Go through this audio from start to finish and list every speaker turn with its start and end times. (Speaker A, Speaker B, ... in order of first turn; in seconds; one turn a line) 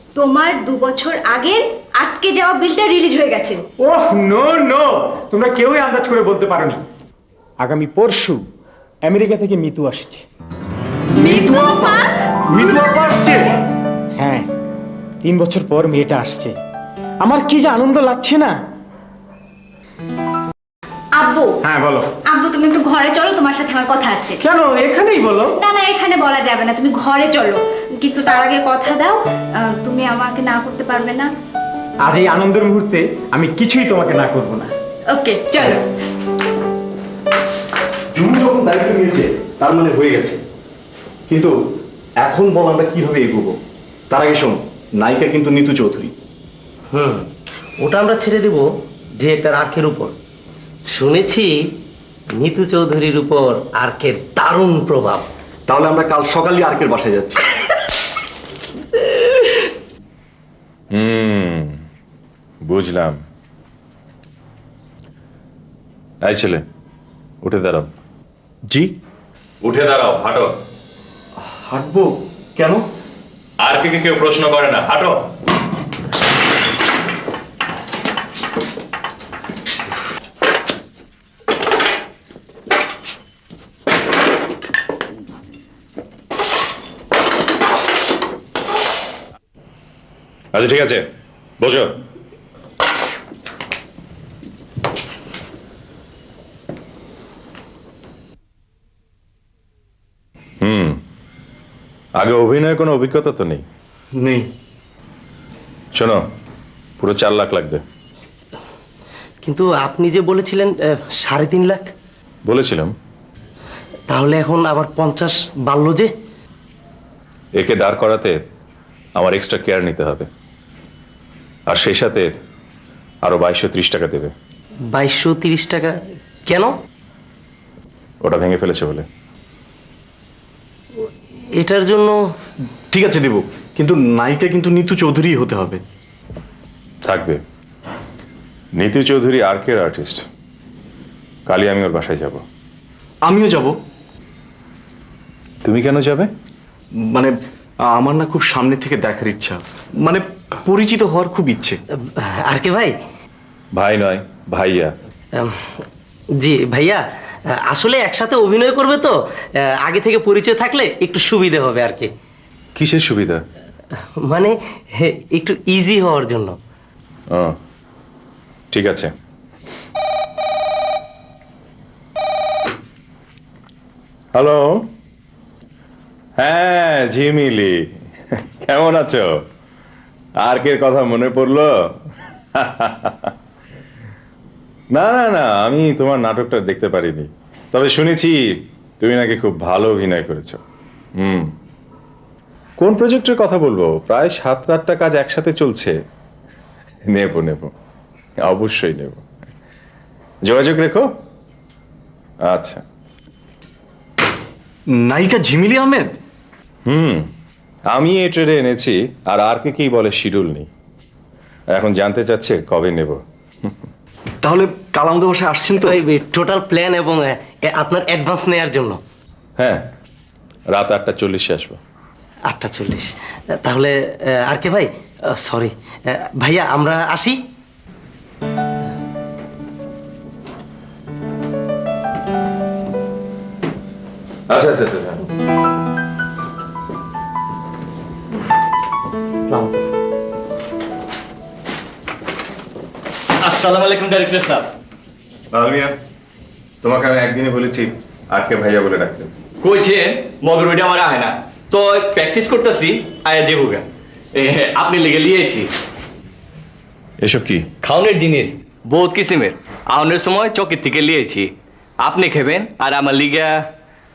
Speaker A: 0.1-3.6
Speaker B: 3.8-6.8
Speaker B: 7.6-8.4
Speaker B: 9.0-10.2
Speaker A: 11.2-12.6
Speaker C: 11.2-13.5
Speaker B: 14.2-14.5
Speaker B: 15.2-16.6
Speaker B: 17.2-18.6
Speaker A: 21.1-21.6
Speaker B: 21.6-22.1
Speaker A: 22.3-24.4
Speaker B: 24.4-25.5
Speaker A: 25.6-31.3
Speaker B: 32.0-34.7
Speaker A: 35.1-35.8
Speaker C: 38.1-40.4
Speaker C: 41.3-41.5
Speaker C: 42.2-43.6
Speaker C: 44.1-46.1
Speaker D: 46.9-47.3
Speaker D: 47.8-50.1
Speaker D: 51.0-51.7
Speaker D: 52.4-55.3
Speaker C: 55.7-57.4
Speaker E: 60.9-61.8
Speaker E: 62.6-63.2
Speaker E: 66.3-66.6
Speaker E: 67.4-67.9
Speaker E: 69.6-70.5
Speaker C: 71.4-72.8
Speaker E: 73.6-75.2
Speaker E: 90.5-91.0
Speaker E: 91.6-92.0
Speaker E: 100.6-101.0
Speaker E: 102.2-103.6
Speaker C: 104.2-104.5
Speaker E: 106.0-106.2
Speaker E: 107.0-107.8
Speaker D: 109.4-111.9
Speaker E: 112.5-112.9
Speaker D: 114.1-116.1
Speaker E: 117.6-118.4
Speaker E: 119.2-120.3
Speaker E: 121.7-122.3
Speaker E: 123.2-124.3
Speaker D: 125.0-126.7
Speaker E: 128.2-129.1
Speaker D: 131.6-132.2
Speaker C: 132.9-135.8
Speaker E: 137.1-137.4
Speaker E: 138.8-140.2
Speaker E: 141.5-142.4
Speaker C: 143.2-143.7
Speaker E: 145.7-146.3
Speaker C: 147.1-147.3
Speaker C: 147.9-151.8
Speaker D: 152.1-153.0
Speaker E: 153.8-154.9
Speaker D: 155.4-155.7
Speaker D: 156.4-157.0
Speaker D: 157.7-159.2
Speaker D: 159.8-162.1
Speaker E: 162.8-163.4
Speaker D: 164.2-166.6
Speaker E: 168.7-169.1
Speaker E: 174.3-174.8
Speaker E: 176.4-177.8
Speaker E: 178.6-179.3
Speaker E: 180.4-181.7
Speaker E: 182.6-183.3
Speaker E: 184.9-188.4
Speaker E: 189.0-190.6
Speaker E: 191.2-191.5
Speaker E: 192.8-195.9
Speaker E: 197.1-197.7
Speaker E: 198.5-199.2
Speaker E: 200.5-201.1
Speaker E: 202.5-202.8
Speaker C: 204.9-206.2
Speaker E: 206.9-207.3
Speaker E: 207.9-210.7
Speaker E: 211.7-213.7
Speaker C: 214.4-215.9
Speaker D: 215.8-219.0
Speaker E: 220.7-221.8
Speaker D: 222.5-227.4
Speaker E: 234.5-235.2
Speaker F: 243.4-244.7
Speaker E: 245.5-246.0
Speaker E: 246.8-249.3
Speaker F: 249.6-255.7
Speaker E: 257.2-257.7
Speaker F: 257.8-263.6